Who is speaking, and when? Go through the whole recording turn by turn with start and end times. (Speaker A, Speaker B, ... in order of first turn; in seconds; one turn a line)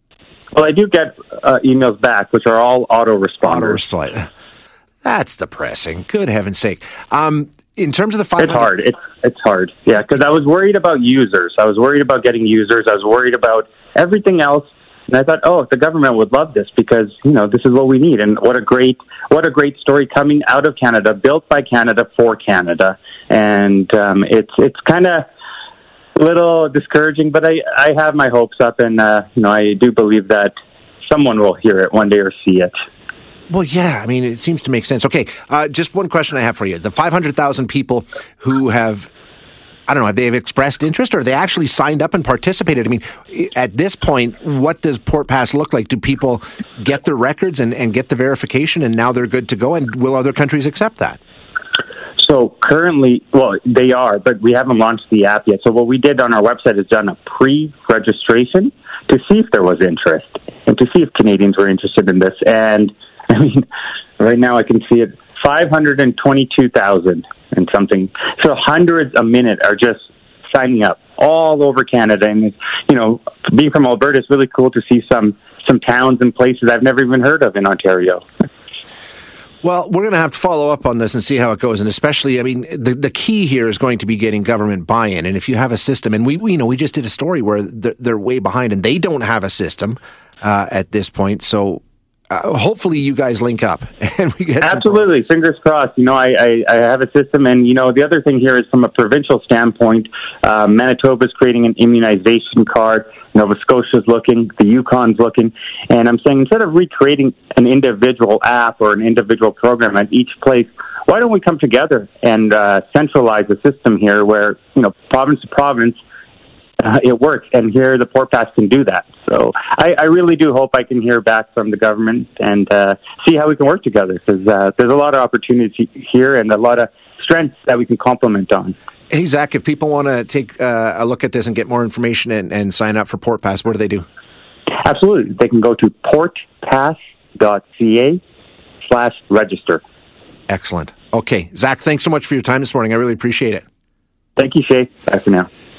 Speaker A: 0.5-3.9
Speaker B: 3.4-4.3
Speaker B: 5.0-8.7
Speaker A: 8.4-25.2
Speaker A: 26.2-30.5
Speaker A: 31.1-32.7
Speaker B: 33.5-39.1
Speaker B: 39.9-51.2
Speaker A: 52.2-63.7
Speaker A: 64.2-78.2
Speaker B: 79.6-95.1
Speaker A: 94.6-116.0
Speaker A: 116.8-128.8
Speaker B: 129.1-134.1
Speaker A: 134.8-138.2
Speaker A: 138.9-139.8
Speaker B: 140.5-143.6
Speaker A: 144.4-145.5